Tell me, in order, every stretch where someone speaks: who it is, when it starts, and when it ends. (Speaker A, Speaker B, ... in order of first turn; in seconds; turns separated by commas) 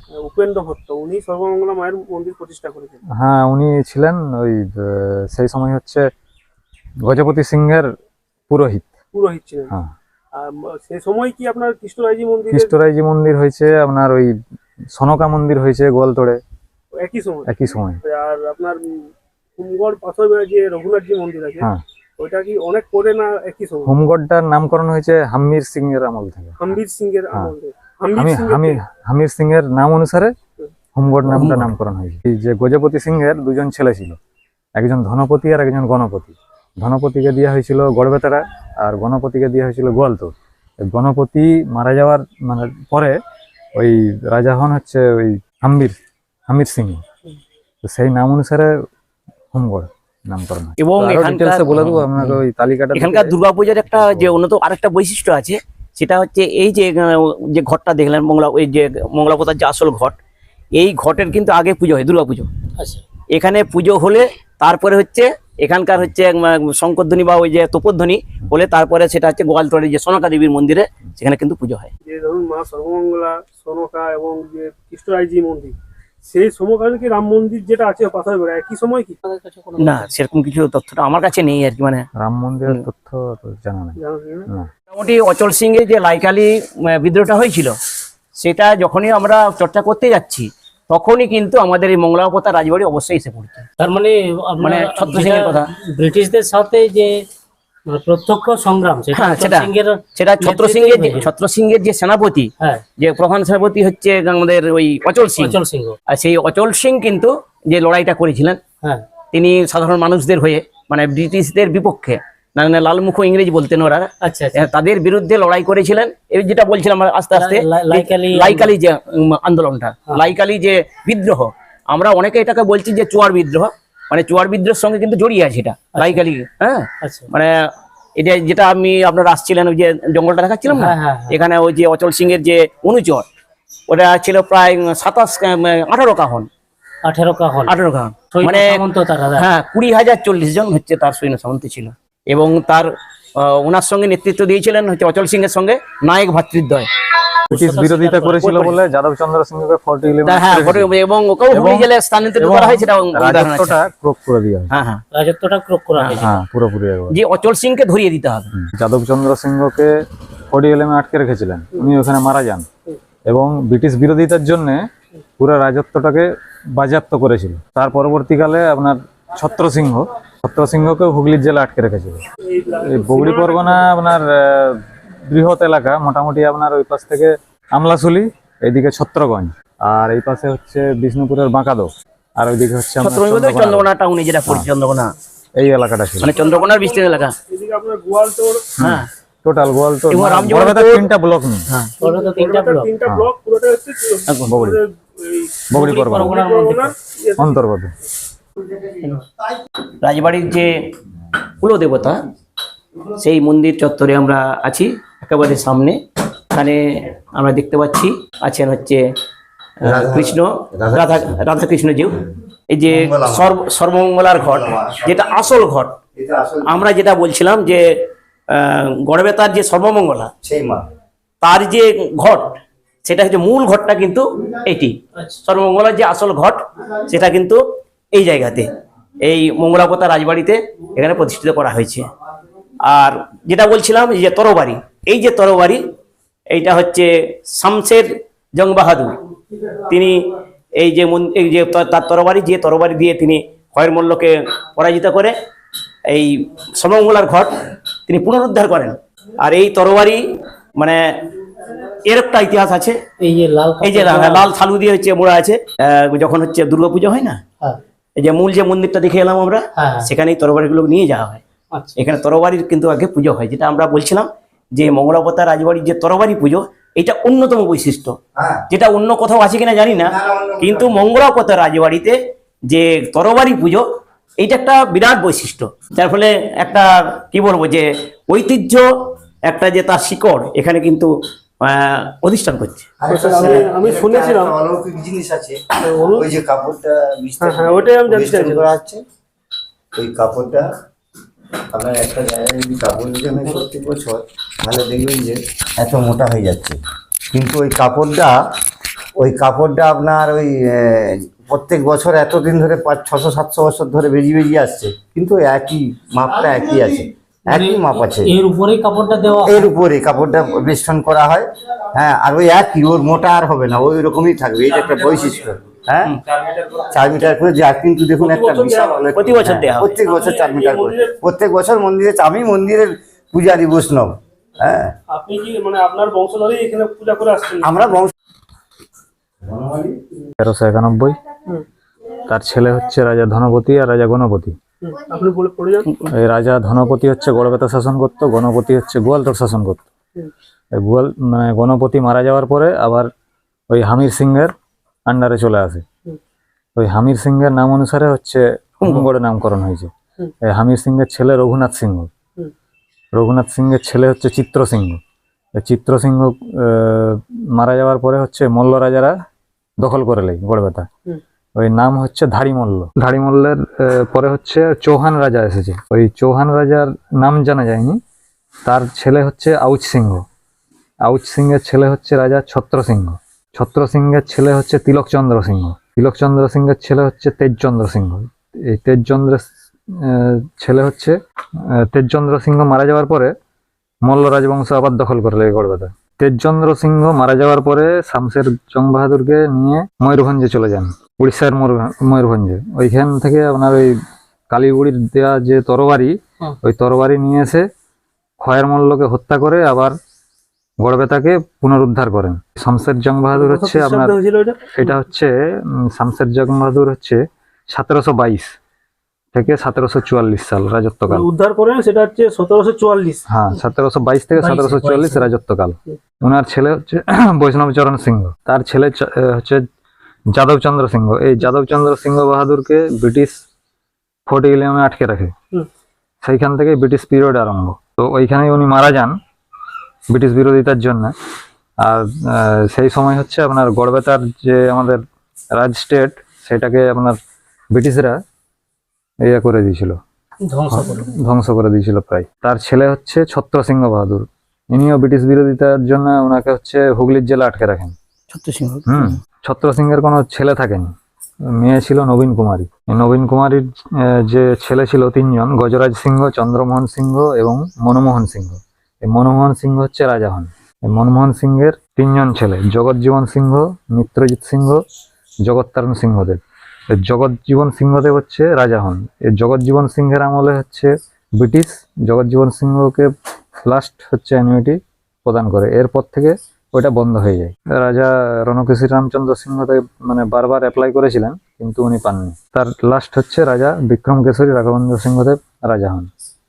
Speaker A: 0.1-3.0, Speaker B: 3.1-6.1, Speaker B: 7.0-7.9, Speaker B: 8.5-8.9, Speaker A: 9.1-9.7, Speaker A: 10.3-12.7, Speaker B: 12.5-14.3, Speaker B: 14.9-16.4, Speaker A: 17.0-17.5, Speaker B: 17.4-18.0, Speaker A: 18.0-23.9, Speaker B: 23.9-26.8, Speaker A: 26.6-28.8, Speaker B: 28.1-30.3, Speaker B: 30.9-34.2, Speaker C: 31.3-31.7, Speaker B: 34.8-43.1, Speaker B: 43.8-45.9, Speaker B: 46.5-47.0, Speaker B: 47.8-48.7, Speaker B: 49.5-53.4, Speaker C: 50.8-52.4, Speaker C: 52.9-60.2, Speaker B: 53.9-54.4, Speaker C: 60.8-62.5, Speaker C: 63.3-71.9, Speaker A: 72.0-79.2, Speaker D: 79.2-80.1, Speaker C: 79.8-82.1, Speaker B: 82.2-84.0, Speaker A: 84.0-84.5, Speaker C: 84.9-87.8, Speaker C: 88.4-93.7, Speaker D: 93.8-97.2, Speaker C: 94.6-95.7, Speaker D: 97.9-101.3, Speaker C: 99.1-105.6, Speaker D: 105.4-106.0, Speaker C: 106.1-108.6, Speaker D: 108.8-109.1, Speaker C: 109.3-127.5, Speaker D: 114.2-114.7, Speaker D: 117.3-118.8, Speaker D: 120.1-120.3, Speaker D: 126.0-126.2, Speaker D: 127.0-127.3, Speaker C: 128.2-133.2, Speaker D: 130.7-131.4, Speaker C: 133.9-136.5, Speaker D: 137.0-137.8, Speaker C: 137.7-138.8, Speaker D: 138.3-139.5, Speaker C: 139.4-146.9, Speaker D: 147.5-148.5, Speaker B: 147.5-150.9, Speaker C: 148.4-148.8, Speaker C: 150.2-153.8, Speaker B: 151.5-154.7, Speaker C: 154.7-155.0, Speaker D: 155.1-156.4, Speaker C: 156.0-156.2, Speaker B: 156.2-157.2, Speaker C: 157.1-158.5, Speaker B: 158.5-159.9, Speaker B: 160.5-162.7, Speaker B: 163.3-164.8, Speaker B: 165.4-172.2, Speaker A: 172.5-173.9, Speaker B: 172.8-183.9, Speaker C: 183.0-185.1, Speaker B: 185.6-186.3, Speaker C: 186.2-187.3, Speaker A: 186.3-188.7, Speaker B: 188.8-191.7, Speaker C: 188.8-189.1, Speaker C: 190.1-191.1, Speaker D: 192.0-192.9, Speaker A: 192.0-197.6, Speaker B: 194.5-194.8, Speaker B: 195.7-196.3, Speaker D: 195.8-196.9, Speaker B: 197.4-197.9, Speaker C: 200.0-200.8, Speaker C: 201.6-202.2, Speaker C: 203.1-206.0, Speaker C: 206.5-209.0, Speaker C: 209.8-212.2, Speaker E: 209.8-211.4, Speaker C: 212.7-215.9, Speaker E: 212.9-213.6, Speaker E: 214.3-216.8, Speaker C: 216.7-217.8, Speaker C: 218.5-220.3, Speaker E: 220.4-220.9, Speaker C: 221.4-227.6, Speaker C: 228.1-228.7, Speaker C: 229.2-232.1, Speaker C: 232.8-235.8, Speaker C: 236.5-239.2, Speaker C: 239.8-245.3, Speaker C: 246.1-250.2, Speaker C: 250.8-253.0, Speaker D: 253.2-254.5, Speaker C: 253.8-257.4, Speaker C: 258.2-261.4, Speaker D: 259.8-260.1, Speaker C: 261.9-268.2, Speaker E: 268.4-268.6, Speaker C: 268.7-273.8, Speaker E: 270.0-271.1, Speaker C: 274.4-278.9, Speaker C: 279.4-281.1, Speaker C: 281.6-282.9, Speaker E: 283.0-289.0, Speaker A: 283.1-284.5, Speaker A: 285.8-286.3, Speaker A: 287.4-288.7, Speaker E: 289.9-290.7, Speaker E: 291.7-296.8, Speaker E: 297.3-298.4, Speaker E: 299.1-308.4, Speaker D: 307.5-309.7, Speaker E: 309.4-316.1, Speaker A: 314.8-315.4, Speaker A: 316.4-316.8, Speaker E: 316.8-324.9, Speaker A: 318.2-319.0, Speaker C: 319.1-320.0, Speaker A: 320.0-321.1, Speaker A: 325.1-327.9, Speaker E: 327.6-328.1, Speaker E: 329.4-330.0, Speaker B: 330.4-331.2, Speaker B: 332.2-334.6, Speaker A: 334.8-335.9, Speaker B: 336.1-339.9, Speaker B: 340.8-343.1, Speaker B: 343.7-344.5, Speaker B: 345.1-345.8, Speaker B: 346.8-349.9, Speaker C: 348.8-349.1, Speaker B: 350.4-352.1, Speaker B: 353.1-355.0, Speaker B: 355.6-359.1, Speaker B: 359.8-360.9, Speaker B: 361.6-368.0, Speaker B: 368.6-370.2, Speaker B: 371.0-383.3, Speaker B: 384.0-393.9, Speaker B: 394.5-397.6, Speaker B: 398.4-399.9, Speaker B: 400.8-404.1, Speaker A: 403.3-404.8, Speaker B: 404.7-408.6, Speaker B: 409.3-411.2, Speaker A: 411.1-413.2, Speaker B: 413.3-419.6, Speaker D: 414.4-415.3, Speaker B: 420.3-423.4, Speaker B: 424.3-425.3, Speaker B: 426.2-429.1, Speaker B: 430.1-431.1, Speaker B: 431.8-435.0, Speaker B: 435.5-437.1, Speaker B: 437.7-438.2, Speaker B: 439.2-440.0, Speaker D: 440.5-441.1, Speaker B: 440.7-447.9, Speaker C: 448.3-449.2, Speaker B: 448.9-450.9, Speaker B: 451.6-464.8, Speaker B: 465.4-466.4, Speaker B: 466.9-473.1, Speaker B: 473.6-486.1